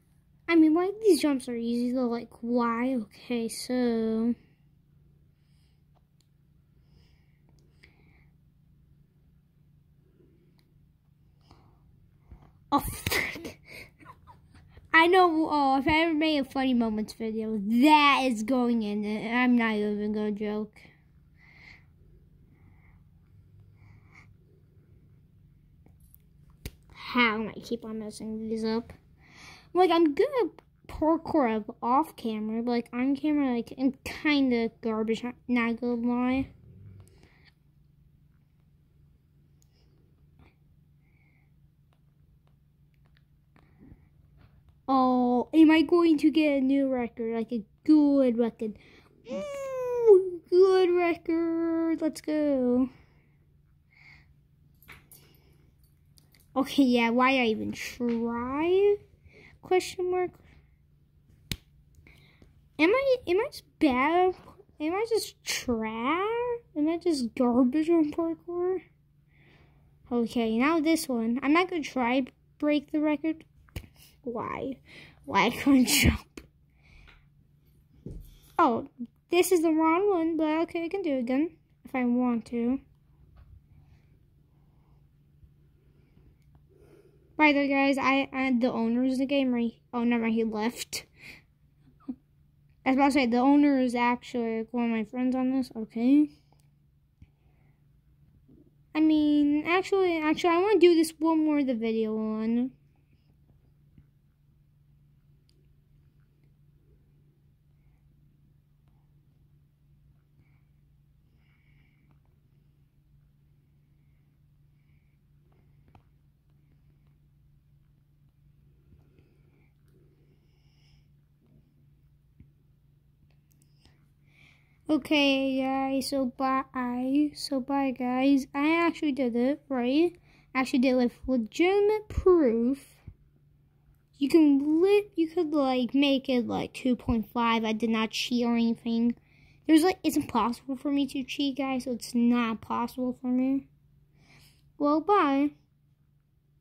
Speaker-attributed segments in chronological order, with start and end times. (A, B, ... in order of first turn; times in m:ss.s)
0:00.5-0:04.4 A
0:12.7-0:13.6 A
0:14.9-0:20.8 A
0:27.0-0:28.9 A
0:29.7-0:36.5 A
0:44.9-0:52.9 A
0:56.6-0:59.0 A
0:59.6-1:00.4 A
1:02.8-1:08.8 A
1:10.1-1:13.5 A
1:14.2-1:16.4 A
1:18.6-1:22.8 A
1:27.4-1:31.1 A
1:32.8-1:36.3 A
1:38.9-1:42.7 A
2:04.9-2:13.0 A
2:14.2-2:23.7 A
2:24.8-2:25.5 A